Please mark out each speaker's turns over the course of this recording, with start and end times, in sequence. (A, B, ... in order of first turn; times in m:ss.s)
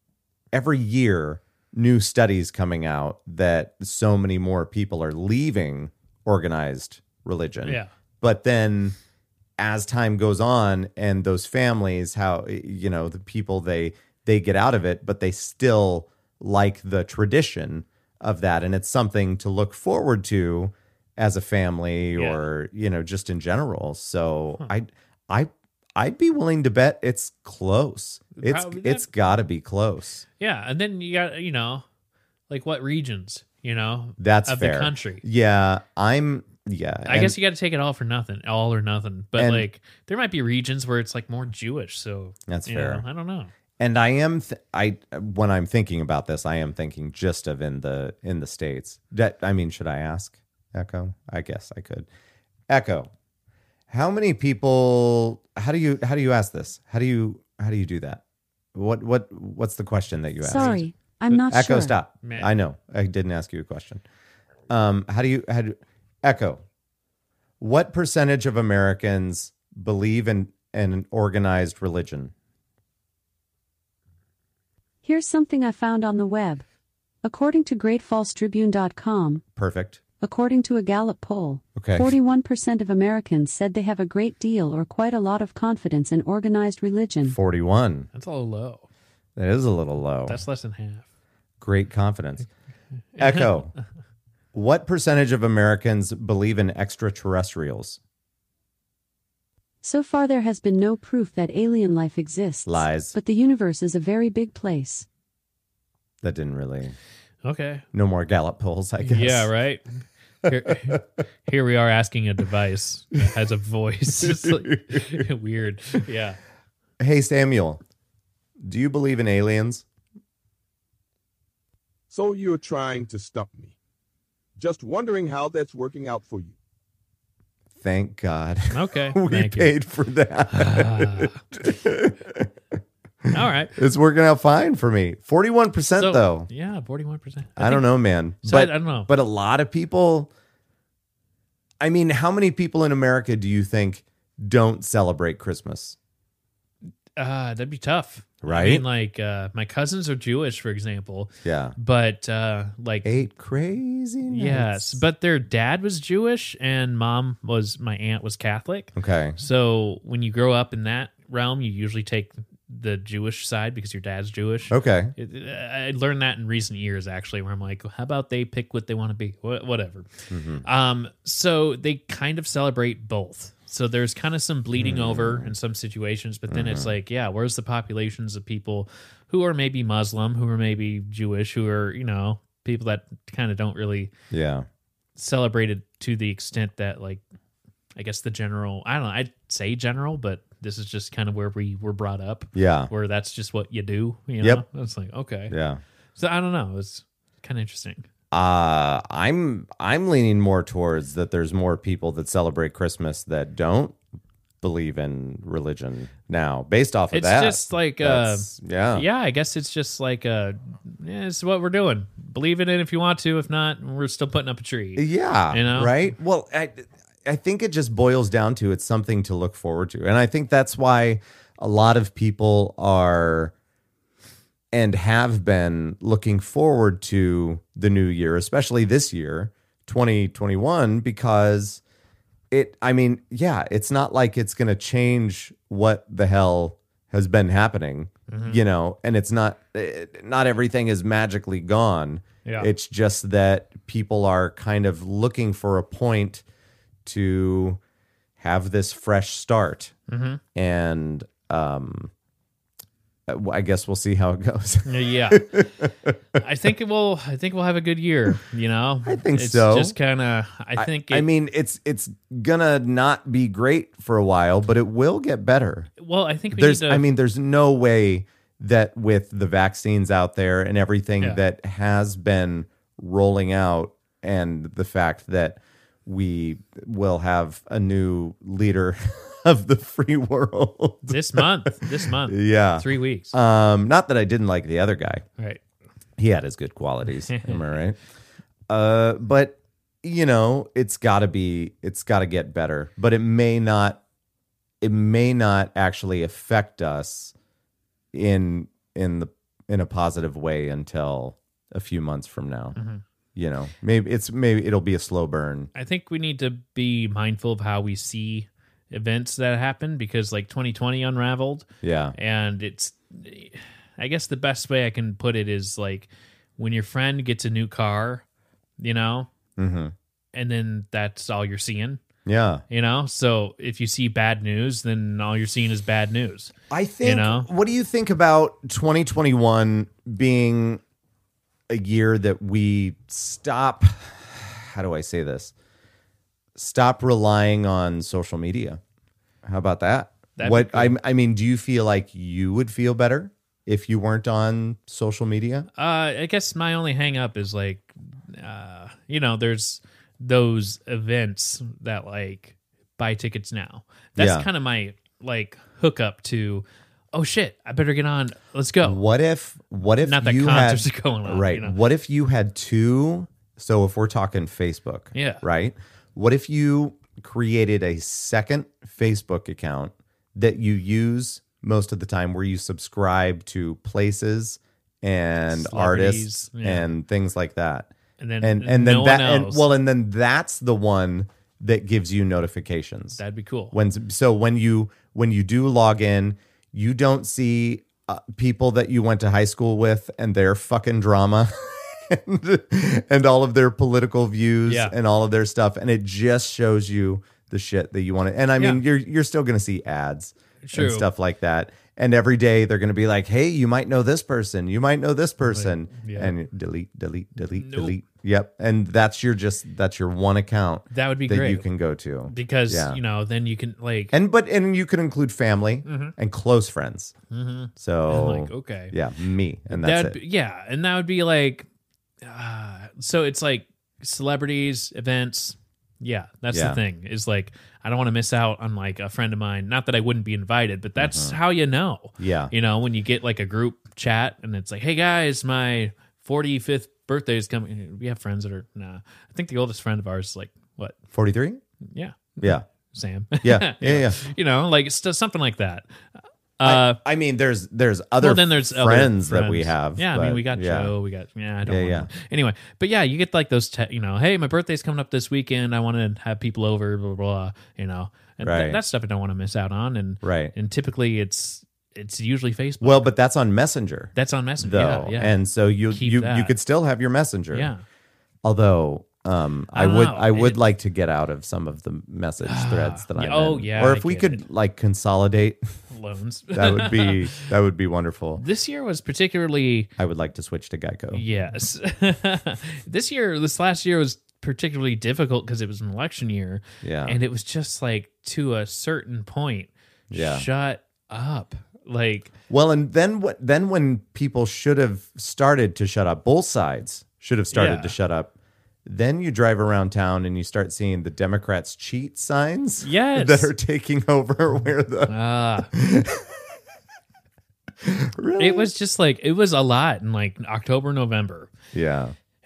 0:00.5-0:09.0 A
0:07.6-0:07.9 B
0:09.6-0:30.2 A
0:22.1-0:22.4 B
0:28.4-0:29.1 B
0:30.4-0:31.8 B
0:32.5-0:35.2 B
0:34.2-0:37.3 A
0:37.0-0:43.5 B
0:39.4-0:39.6 A
0:42.5-0:43.0 A
0:43.8-0:52.1 A
0:52.7-0:53.1 A
0:53.9-0:58.2 A
0:58.7-1:00.8 A
1:00.4-1:01.9 C
1:00.5-1:00.8 B
1:01.5-1:04.0 A
1:02.2-1:02.5 B
1:04.7-1:06.6 A
1:07.6-1:12.3 A
1:15.0-1:16.6 C
1:17.2-1:19.4 C
1:19.6-1:20.0 A
1:20.2-1:27.4 C
1:21.8-1:22.1 A
1:27.2-1:28.1 A
1:28.1-1:28.8 B
1:29.4-1:30.4 A
1:30.3-1:31.0 B
1:31.6-1:32.5 A
1:33.2-1:33.5 B
1:33.2-1:33.7 A
1:34.5-1:38.0 A
1:39.8-1:45.0 C
1:42.6-1:43.1 A
1:46.2-1:46.9 A
1:47.4-1:47.8 B
1:47.9-1:49.5 A
1:49.0-1:49.8 B
1:50.4-1:51.0 A
1:50.4-1:56.4 B
1:54.2-1:55.0 A
1:57.0-1:57.8 A
1:58.6-1:59.8 A
2:02.1-2:03.8 D
2:04.6-2:06.5 D
2:07.8-2:12.5 A
2:08.7-2:09.7 B
2:10.5-2:11.4 B
2:13.3-2:16.5 A
2:13.3-2:13.7 B
2:16.0-2:17.9 B
2:17.6-2:20.3 A
2:18.4-2:19.1 B
2:21.8-2:26.0 A
2:27.2-2:33.1 B
2:28.4-2:28.8 A
2:31.4-2:31.7 A
2:33.0-2:35.0 A
2:34.3-2:50.1 B
2:39.0-2:39.4 A
2:44.7-2:45.1 A
2:50.3-2:50.6 A
2:50.6-3:04.1 B
2:54.8-2:55.5 A
2:56.5-2:56.9 A
3:04.3-3:04.6 A
3:05.2-3:07.2 B
3:08.0-3:15.5 B
3:12.5-3:12.9 A
3:15.5-3:15.8 A
3:16.2-3:18.0 B
3:18.3-3:24.0 A
3:24.6-3:29.0 A
3:27.1-3:36.1 B
3:35.0-3:43.5 A
3:44.7-3:51.8 A
3:52.5-4:06.4 A
3:58.3-3:58.6 B
4:02.4-4:02.7 B
4:07.0-4:07.8 A
4:08.4-4:09.9 A
4:10.1-4:10.4 B
4:10.5-4:12.1 A
4:13.3-4:16.1 A
4:14.8-4:15.6 B
4:16.4-4:21.3 B
4:19.0-4:19.9 A
4:20.8-4:25.9 A
4:26.0-4:27.0 B
4:26.5-4:45.2 A
4:41.1-4:43.3 B
4:46.2-4:48.0 A
4:47.3-4:47.6 B
4:48.7-4:54.0 A
4:54.8-4:57.3 A
4:58.1-5:02.8 A
5:02.8-5:03.0 B
5:03.4-5:05.7 A
5:05.7-5:18.2 B
5:11.8-5:12.1 A
5:18.8-5:19.3 B
5:19.6-5:19.9 A
5:20.3-5:22.0 B
5:22.2-5:22.6 A
5:22.7-5:27.5 B
5:26.7-5:30.8 A
5:31.7-5:35.5 A
5:36.6-5:38.8 A
5:39.4-5:45.7 A
5:40.4-5:41.0 B
5:45.8-5:59.0 B
5:54.2-5:54.5 A
5:58.8-6:17.9 A
6:00.0-6:01.7 B
6:05.1-6:05.4 B
6:15.5-6:16.9 B
6:18.2-6:19.6 B
6:18.4-6:23.2 A
6:23.2-6:23.7 B
6:23.7-6:53.0 A
6:34.7-6:34.9 B
6:40.6-6:41.1 B
6:45.4-6:46.3 B
6:47.6-6:47.9 B
6:50.9-6:51.6 B
6:52.3-6:54.1 B
6:54.1-6:57.1 A
6:55.8-6:56.1 B
6:57.3-6:58.9 B
6:57.8-7:00.2 A
6:59.7-7:01.6 B
7:02.2-7:21.0 B
7:06.5-7:06.8 A
7:11.0-7:11.4 A
7:12.2-7:12.5 A
7:21.1-7:21.6 A
7:21.9-7:25.8 B
7:23.4-7:24.2 A
7:26.6-7:27.0 B
7:26.6-7:30.9 A
7:28.2-7:43.1 B
7:31.6-7:32.1 A
7:38.4-7:38.8 A
7:40.2-7:40.5 A
7:42.8-7:47.7 A
7:44.1-7:45.3 B
7:45.9-7:46.5 B
7:47.5-7:47.8 B
7:48.4-7:55.6 A
7:49.7-7:50.6 B
7:52.4-7:54.4 B
7:55.9-7:57.4 B
7:56.5-7:58.4 A
7:58.4-7:59.9 B
8:00.0-8:01.2 A
8:01.1-8:12.3 B
8:06.8-8:07.2 A
8:10.1-8:10.5 A
8:12.5-8:18.3 A
8:17.5-8:17.9 B
8:18.8-8:25.1 A
8:22.8-8:23.5 B
8:25.1-8:25.7 B
8:25.6-8:26.3 A
8:27.8-8:28.7 A
8:28.4-8:31.5 B
8:31.7-8:32.1 A